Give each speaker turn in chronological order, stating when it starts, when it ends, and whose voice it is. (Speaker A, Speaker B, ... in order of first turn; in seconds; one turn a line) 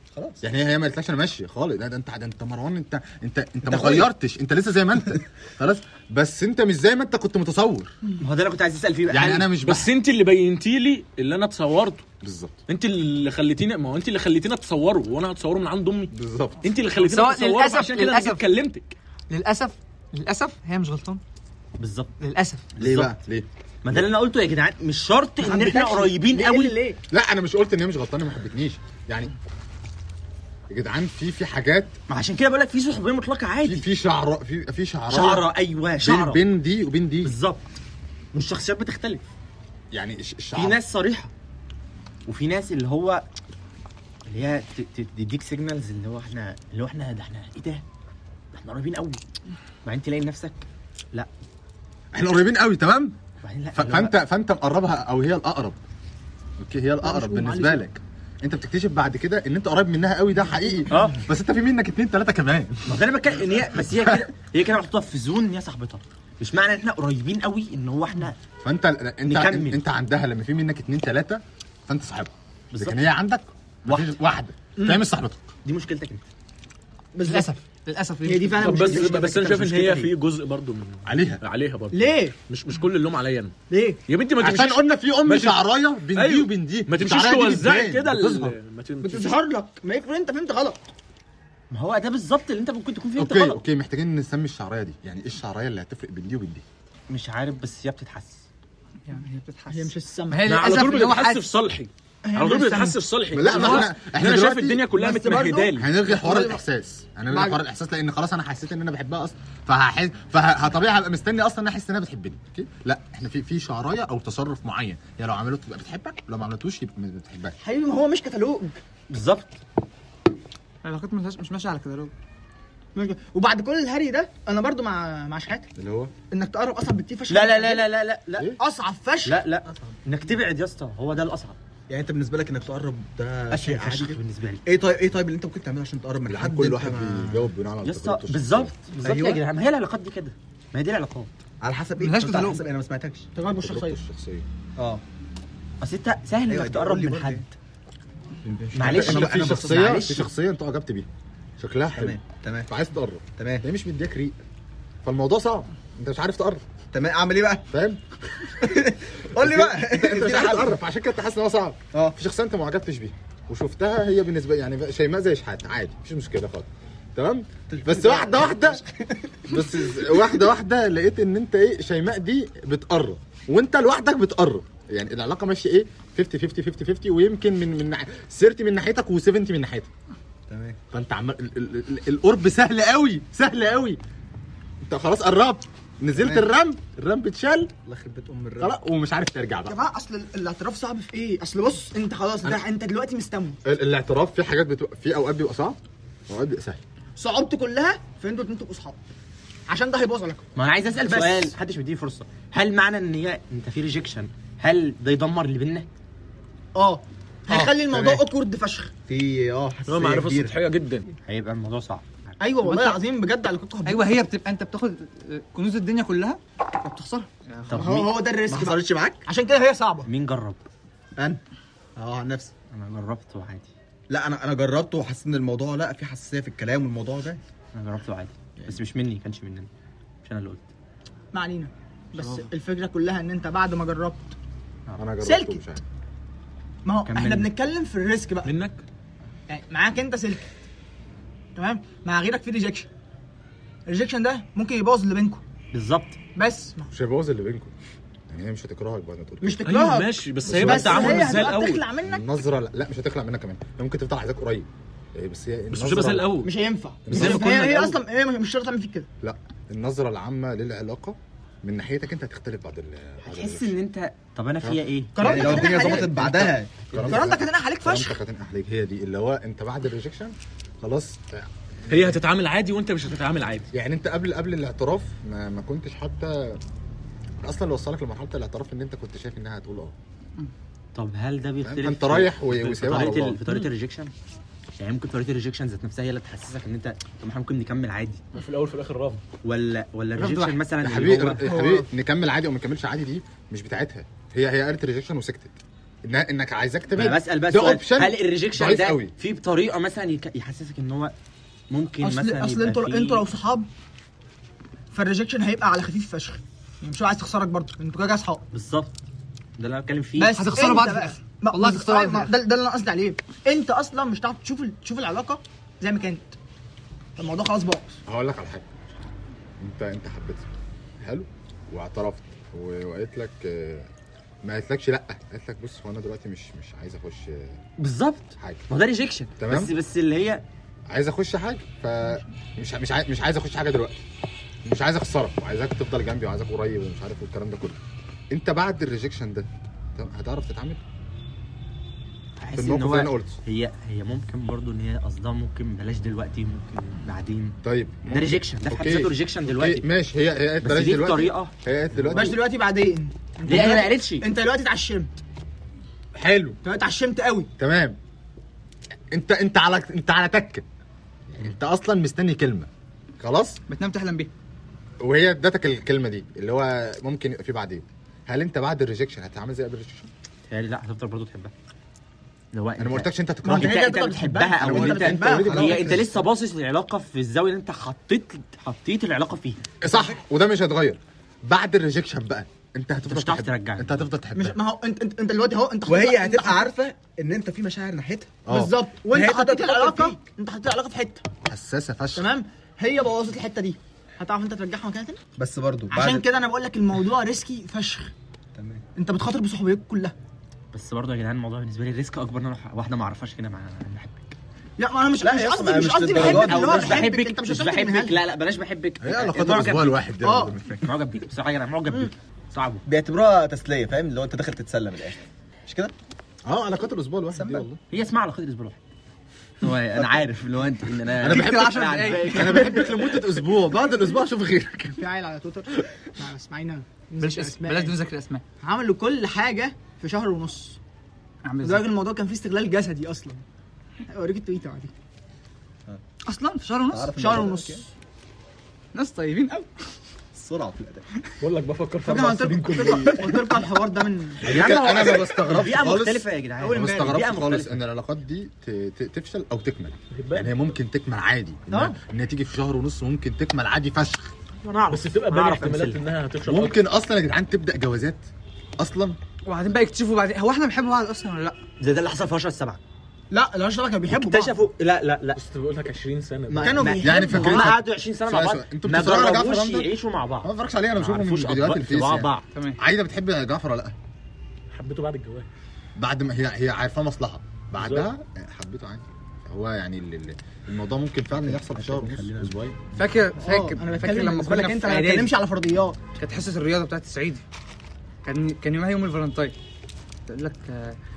Speaker A: 0.1-0.4
Speaker B: 0.4-7.9
Speaker A: 3.7-4.0
Speaker C: 8.2-9.5
Speaker B: 9.1-9.9
Speaker D: 9.6-12.1
Speaker B: 12.2-12.6
Speaker D: 12.7-18.9
Speaker B: 16.1-16.6
Speaker E: 16.9-18.4
Speaker E: 19.3-21.2
Speaker C: 21.8-22.1
Speaker E: 22.2-22.6
Speaker C: 22.8-23.2
Speaker B: 22.8-24.1
Speaker C: 23.8-26.7
Speaker F: 25.4-27.0
Speaker B: 27.1-29.3
Speaker B: 30.7-31.9
Speaker C: 32.1-33.9
Speaker B: 33.6-37.3
Speaker C: 35.1-36.4
Speaker C: 37.2-37.8
Speaker C: 38.3-39.3
Speaker B: 39.9-40.8
Speaker C: 40.5-41.3
Speaker C: 42.3-43.2
Speaker C: 44.3-47.8
Speaker C: 48.5-49.2
Speaker C: 49.8-51.3
Speaker B: 52.1-53.2
Speaker C: 53.4-54.1
Speaker B: 53.7-55.8
Speaker B: 56.6-63.0
Speaker F: 57.0-57.8
Speaker C: 60.9-61.2
Speaker C: 62.9-68.4
Speaker B: 63.8-64.2
Speaker B: 68.6-75.5
Speaker C: 69.2-69.8
Speaker C: 72.7-73.0
Speaker C: 75.6-76.2
Speaker F: 77.1-77.5
Speaker E: 77.2-78.9
Speaker F: 78.2-80.1
Speaker D: 78.6-83.5
Speaker B: 81.0-81.4
Speaker F: 81.9-82.3
Speaker F: 83.7-84.0
Speaker D: 84.1-85.6
Speaker B: 84.4-88.5
Speaker D: 86.1-89.4
Speaker F: 89.0-90.8
Speaker C: 91.7-93.6
Speaker B: 93.2-96.6
Speaker C: 97.1-98.5
Speaker E: 99.1-101.4
Speaker F: 99.7-100.5
Speaker D: 100.4-105.9
Speaker F: 102.2-103.0
Speaker B: 103.3-104.8
Speaker F: 103.5-103.8
Speaker F: 104.9-106.6
Speaker B: 105.7-117.6
Speaker F: 107.3-107.6
Speaker F: 117.6-118.8
Speaker C: 119.1-119.6
Speaker E: 120.8-122.1
Speaker F: 122.9-125.7
Speaker B: 125.8-126.1
Speaker F: 126.3-128.0
Speaker C: 127.3-128.5
Speaker F: 128.6-129.4
Speaker C: 129.2-131.6
Speaker A: 131.9-137.5
Speaker C: 133.5-134.6
Speaker B: 136.3-138.7
Speaker C: 137.8-141.3
Speaker A: 139.0-139.4
Speaker A: 141.6-143.3
Speaker E: 142.0-142.6
Speaker F: 143.3-144.0
Speaker B: 143.6-144.5
Speaker A: 144.8-145.0
Speaker C: 145.8-147.5
Speaker A: 146.5-147.4
Speaker A: 148.4-149.6
Speaker C: 148.7-150.3
Speaker B: 148.8-154.4
Speaker A: 151.9-152.7
Speaker A: 153.4-153.6
Speaker B: 155.0-156.7
Speaker A: 156.9-157.7
Speaker B: 157.7-158.0
Speaker A: 158.6-160.8
Speaker B: 159.3-168.8
Speaker A: 167.7-169.5
Speaker B: 169.5-179.9
Speaker A: 180.5-180.8
Speaker B: 180.9-184.0
Speaker B: 184.8-187.7
Speaker A: 186.2-186.4
Speaker A: 187.8-188.8
Speaker B: 188.6-189.8
Speaker F: 189.7-193.6
Speaker B: 193.6-196.8
Speaker F: 197.2-199.0
Speaker F: 199.7-200.4
Speaker C: 200.6-205.9
Speaker F: 201.1-201.5
Speaker F: 206.7-208.9
Speaker A: 207.6-208.2
Speaker A: 209.1-210.5
Speaker D: 209.9-211.1
Speaker C: 211.2-212.8
Speaker F: 212.4-214.1
Speaker E: 213.8-217.9
Speaker C: 217.7-218.2
Speaker F: 217.7-220.1
Speaker A: 218.5-219.2
Speaker C: 220.1-220.6
Speaker A: 221.9-222.5
Speaker C: 222.7-223.7
Speaker A: 224.1-227.4
Speaker C: 227.7-229.7
Speaker C: 230.2-230.7
Speaker F: 231.3-234.3
Speaker B: 235.0-235.8
Speaker F: 235.2-235.6
Speaker F: 236.8-238.5
Speaker C: 237.1-237.5
Speaker D: 238.4-238.8
Speaker F: 239.5-240.4
Speaker F: 241.6-242.9
Speaker F: 243.9-245.4
Speaker C: 245.7-246.2
Speaker F: 246.3-246.9
Speaker B: 246.9-247.7
Speaker B: 248.3-249.6
Speaker F: 249.4-252.3
Speaker D: 249.7-251.8
Speaker B: 250.4-256.4
Speaker D: 255.7-256.5
Speaker F: 256.4-259.1
Speaker B: 257.1-257.6
Speaker D: 257.1-258.0
Speaker B: 259.2-263.7
Speaker C: 263.2-265.8
Speaker B: 264.6-272.1
Speaker F: 265.1-266.1
Speaker A: 265.2-266.8
Speaker F: 267.0-268.2
Speaker D: 271.9-273.7
Speaker B: 273.7-276.6
Speaker B: 277.4-279.9
Speaker C: 280.9-284.1
Speaker B: 281.6-283.4
Speaker C: 284.8-288.2
Speaker D: 288.3-289.2
Speaker C: 289.4-291.5
Speaker E: 290.1-290.6
Speaker B: 290.8-299.1
Speaker E: 291.4-291.9
Speaker C: 296.9-301.1
Speaker C: 301.7-303.2
Speaker F: 302.0-303.7
Speaker F: 304.9-308.4
Speaker C: 308.5-309.0
Speaker C: 309.6-310.3
Speaker F: 310.2-316.3
Speaker E: 310.3-312.3
Speaker F: 317.2-318.0
Speaker B: 318.1-318.6
Speaker B: 319.6-320.4
Speaker B: 321.0-323.9
Speaker B: 324.4-327.6
Speaker C: 327.8-330.4
Speaker B: 329.4-329.7
Speaker B: 330.9-334.0
Speaker B: 334.6-337.8
Speaker B: 338.3-340.8
Speaker C: 342.4-349.9
Speaker B: 342.6-343.4
Speaker B: 347.6-352.4
Speaker C: 350.6-352.3
Speaker F: 352.1-355.1
Speaker C: 353.4-354.3
Speaker B: 356.1-356.6
Speaker F: 356.6-357.5
Speaker B: 357.6-358.0
Speaker B: 359.1-360.6
Speaker B: 361.3-363.6
Speaker E: 363.7-364.3
Speaker B: 365.0-370.1
Speaker C: 370.5-371.5
Speaker C: 372.5-379.6
Speaker B: 372.8-373.9
Speaker F: 373.4-375.9
Speaker B: 374.6-376.2
Speaker A: 375.4-375.9
Speaker B: 379.8-384.6
Speaker C: 383.1-384.1
Speaker F: 384.3-386.7
Speaker A: 385.9-388.4
Speaker B: 388.5-388.7
Speaker F: 388.5-391.2
Speaker A: 389.1-390.2
Speaker B: 391.4-392.3
Speaker F: 392.1-395.2
Speaker A: 395.4-396.2
Speaker F: 395.9-398.1
Speaker A: 398.5-398.8
Speaker F: 399.0-400.1
Speaker C: 400.7-404.3
Speaker F: 404.8-408.2
Speaker A: 405.2-407.1
Speaker C: 406.0-410.1
Speaker B: 409.0-410.8
Speaker F: 410.2-410.6
Speaker C: 410.8-412.8
Speaker A: 412.9-415.9
Speaker B: 416.4-417.8
Speaker A: 417.3-417.6
Speaker C: 417.9-418.8
Speaker C: 419.6-423.2
Speaker B: 421.2-425.0
Speaker E: 421.4-422.3
Speaker F: 424.9-427.9
Speaker E: 427.2-428.4
Speaker F: 428.6-430.8
Speaker E: 431.4-431.9
Speaker F: 431.6-433.4
Speaker F: 434.1-434.9
Speaker E: 436.2-437.1
Speaker A: 436.9-437.9
Speaker F: 437.1-437.8
Speaker E: 438.9-439.7
Speaker A: 440.3-441.1
Speaker D: 441.4-443.5
Speaker F: 442.0-444.5
Speaker B: 444.4-454.3
Speaker C: 444.4-447.8
Speaker F: 446.6-447.1
Speaker D: 450.1-450.5
Speaker F: 451.7-451.9
Speaker C: 454.6-456.0
Speaker D: 454.9-456.8
Speaker B: 456.4-458.2
Speaker B: 458.8-459.2
Speaker E: 459.4-461.6
Speaker C: 461.8-462.8
Speaker F: 463.3-464.6
Speaker C: 464.1-465.4
Speaker D: 465.4-466.8
Speaker C: 466.5-472.4
Speaker F: 466.6-467.8
Speaker B: 467.0-469.9
Speaker B: 470.4-473.9
Speaker D: 474.7-475.5
Speaker B: 475.9-482.8
Speaker D: 477.8-478.1
Speaker A: 481.4-482.5
Speaker E: 482.9-485.4
Speaker F: 483.4-486.0
Speaker E: 486.2-487.4
Speaker E: 488.2-489.5
Speaker E: 490.3-491.0